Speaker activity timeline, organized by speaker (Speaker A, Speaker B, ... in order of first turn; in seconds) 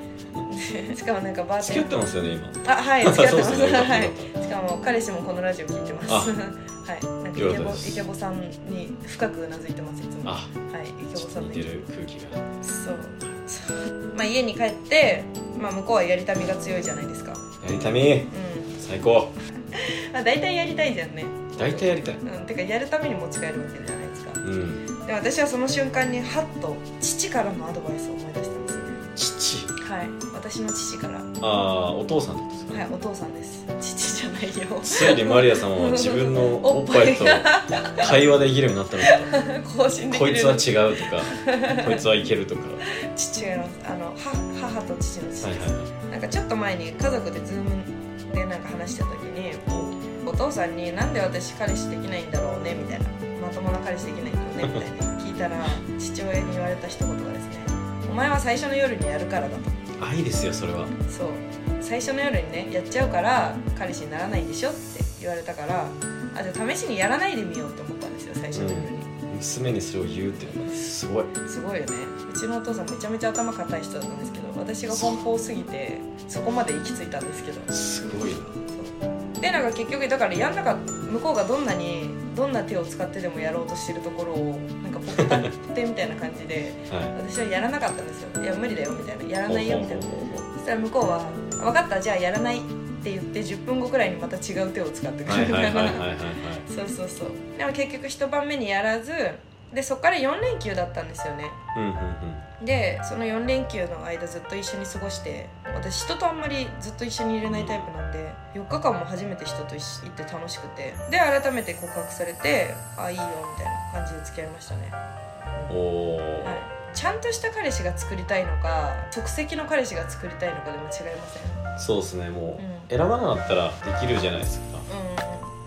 Speaker A: 0.4-1.9, 2.6-11.7, 12.6-17.4, 18.3-18.8, 19.7-24.4, 25.0-29.0, 29.8-31.3, 32.7-38.2, 39.0-42.0, 42.9-59.8, 61.1-69.1, 71.4-77.7, 78.7-96.2, 96.7-101.6, 102.6-115.0, 116.4-121.7, 122.6-122.9, 124.9-125.5
Speaker B: 1.6-4.3, 6.1-6.4, 7.3-8.0, 10.2-10.5, 11.2-12.6, 17.6-19.3, 21.6-22.2, 24.4-24.9, 29.2-29.7, 31.4-32.9, 34.8-39.4, 40.1-42.8, 45.4-45.9, 49.7-50.0, 60.0-61.0, 68.5-71.3, 74.9-75.2, 77.7-78.6, 85.2-85.4, 86.9-87.2, 89.5-90.5, 95.3-96.7, 101.8-102.5, 107.4-107.9, 115.7-116.6, 121.8-124.9